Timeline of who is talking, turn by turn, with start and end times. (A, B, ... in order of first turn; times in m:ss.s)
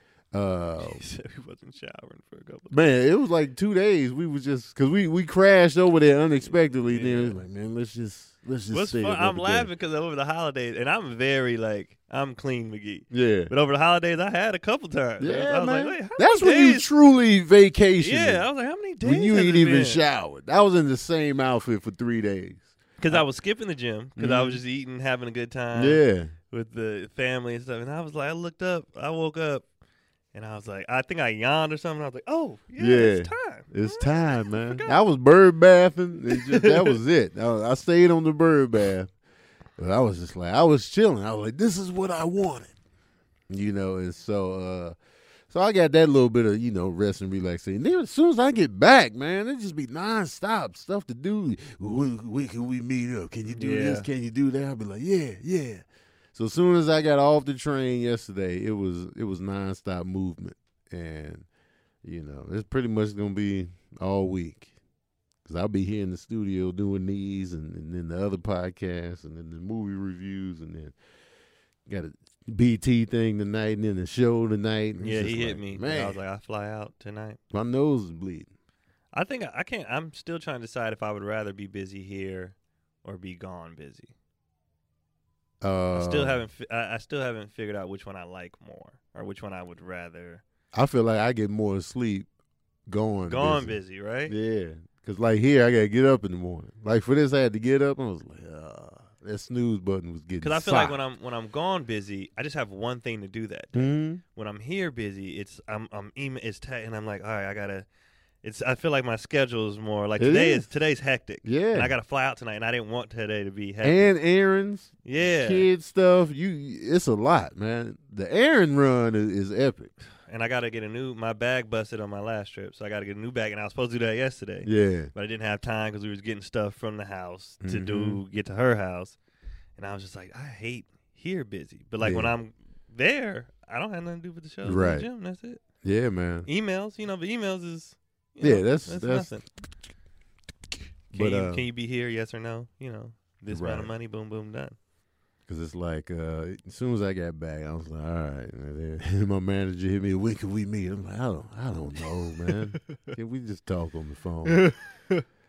0:00.3-0:01.0 A
0:00.8-0:02.8 B
0:02.7-0:09.7 A
0:06.9-0:07.4 B
0:08.7-0:16.9 B
0:13.1-0:13.5 A
0:15.2-0:18.4 A
0:18.0-0:20.0 B
0:19.0-0:23.2 A
0:23.0-0:29.6 B
0:24.2-0:24.6 A
0:25.7-0:26.3 A
0:30.3-0:35.0 B
0:32.8-0:39.1 A
0:36.3-0:37.0 B
0:39.8-0:42.7 A
0:43.5-0:45.0 A
0:45.5-1:01.5 A
0:53.5-0:54.1 B
1:02.0-1:04.7 A
1:05.4-1:10.9 A
1:11.9-1:16.2 A
1:15.0-1:17.4 B
1:17.5-1:18.5 A
1:19.1-1:24.1 B
1:25.6-1:26.4 A
1:25.9-1:30.4 B
1:30.7-1:32.3 A
1:32.9-1:41.0 A
1:33.3-1:34.3 B
1:40.4-1:47.8 B
1:43.7-1:44.2 A
1:48.4-1:54.1 B
1:50.2-1:50.7 A
1:51.4-1:51.9 A
1:53.8-1:59.9 A
1:55.0-1:55.7 B
2:00.3-2:09.2 B
2:04.6-2:05.1 A
2:07.6-2:08.2 A
2:09.8-2:15.6 B
2:12.0-2:12.3 A
2:14.6-2:15.1 A
2:15.8-2:16.5 A
2:16.4-2:19.4 B
2:18.4-2:19.3 A
2:21.1-2:21.6 A
2:21.1-2:24.8 B
2:23.5-2:23.9 A
2:25.5-2:34.7 A
2:34.4-2:35.2 B